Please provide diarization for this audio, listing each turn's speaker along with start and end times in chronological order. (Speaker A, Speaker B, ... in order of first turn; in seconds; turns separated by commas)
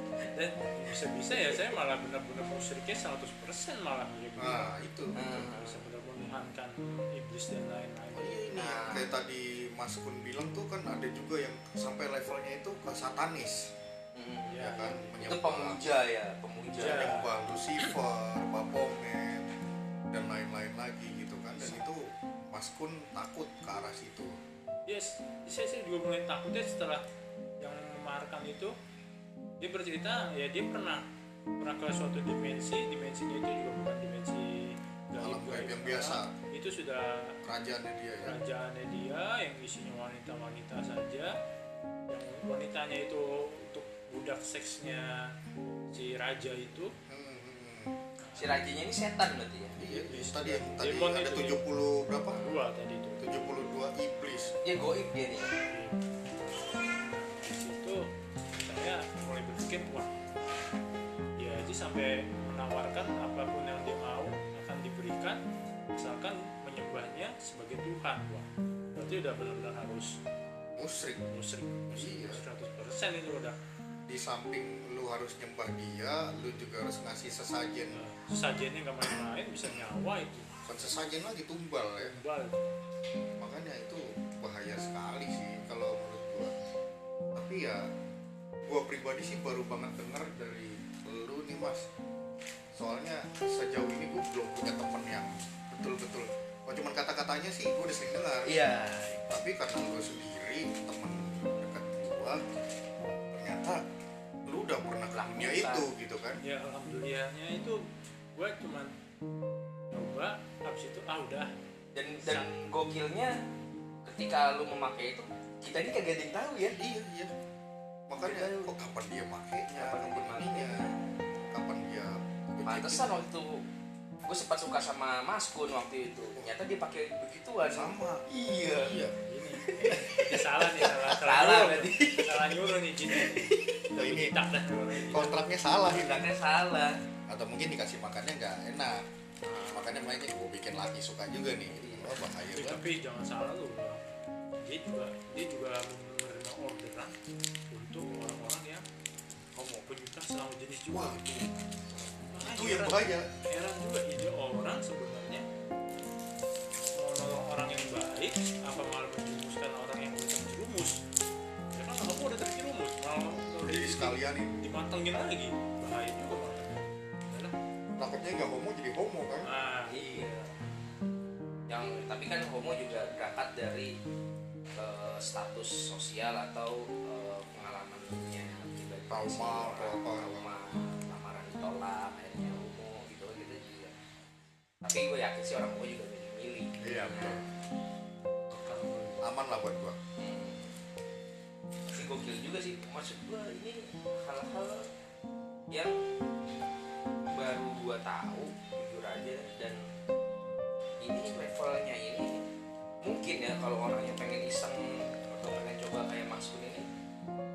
Speaker A: 0.3-4.8, Speaker B: 4.4-5.5, Speaker C: 5.2-5.9, Speaker A: 5.5-8.6, Speaker B: 8.1-13.7, Speaker C: 8.5-9.2, Speaker C: 14.1-14.6, Speaker A: 14.5-15.2, Speaker B: 14.6-15.8, Speaker C: 15.2-17.1, Speaker A: 16.8-17.3, Speaker B: 16.8-19.5, Speaker B: 20.1-24.4, Speaker A: 24.9-27.0, Speaker A: 27.6-28.7, Speaker A: 29.6-31.1, Speaker A: 31.6-37.4, Speaker B: 35.2-36.3, Speaker B: 37.4-38.4, Speaker A: 38.2-41.3, Speaker A: 42.1-45.3, Speaker A: 45.9-46.9, Speaker B: 47.1-48.0, Speaker A: 48.2-48.6, Speaker C: 48.4-49.8, Speaker B: 49.8-52.6, Speaker A: 49.9-51.6, Speaker A: 52.3-53.5, Speaker B: 53.2-54.5, Speaker C: 54.6-55.5, Speaker A: 55.6-56.0, Speaker A: 57.0-60.2, Speaker A: 61.4-65.4, Speaker A: 66.0-70.2, Speaker B: 70.8-71.2, Speaker A: 71.2-73.5, Speaker B: 72.0-72.4, Speaker B: 74.1-78.0, Speaker A: 77.9-80.9, Speaker B: 80.6-82.2, Speaker A: 82.0-82.8, Speaker B: 83.4-86.5, Speaker B: 87.3-87.8, Speaker B: 88.6-91.8, Speaker B: 92.8-98.6, Speaker C: 98.5-99.2, Speaker B: 99.3-102.4, Speaker B: 103.3-103.8, Speaker B: 104.5-106.4, Speaker C: 105.1-105.9, Speaker A: 106.4-108.9, Speaker A: 109.9-111.5, Speaker C: 112.0-113.3, Speaker A: 112.2-112.5, Speaker C: 114.0-116.8, Speaker B: 116.8-117.3, Speaker B: 118.1-120.9, Speaker C: 118.2-118.8, Speaker C: 119.7-121.5, Speaker B: 121.5-123.2, Speaker C: 122.7-123.6, Speaker C: 124.2-129.0, Speaker B: 127.7-128.2, Speaker B: 128.8-129.2, Speaker A: 129.2-135.4, Speaker C: 129.5-133.8, Speaker B: 133.9-134.3, Speaker B: 135.1-136.3, Speaker C: 135.9-136.9, Speaker B: 137.3-139.1, Speaker C: 139.4-140.1, Speaker B: 139.7-142.8, Speaker C: 141.7-142.2, Speaker A: 142.5-144.1, Speaker A: 144.6-147.1, Speaker A: 147.7-148.8, Speaker B: 149.6-149.8, Speaker A: 149.7-151.3, Speaker B: 150.9-151.5, Speaker A: 152.3-155.4, Speaker B: 152.3-153.3, Speaker A: 157.0-161.0, Speaker A: 161.7-167.5, Speaker B: 163.6-164.6, Speaker B: 168.0-169.5, Speaker A: 169.4-170.3, Speaker C: 169.9-170.7, Speaker C: 171.7-173.9, Speaker C: 174.8-183.9, Speaker B: 179.1-180.5, Speaker C: 184.8-187.5, Speaker B: 186.8-187.4, Speaker A: 188.5-189.3, Speaker B: 189.2-190.0, Speaker C: 190.2-190.8, Speaker C: 191.9-194.8, Speaker C: 197.3-199.8, Speaker C: 201.0-202.4, Speaker C: 203.0-206.9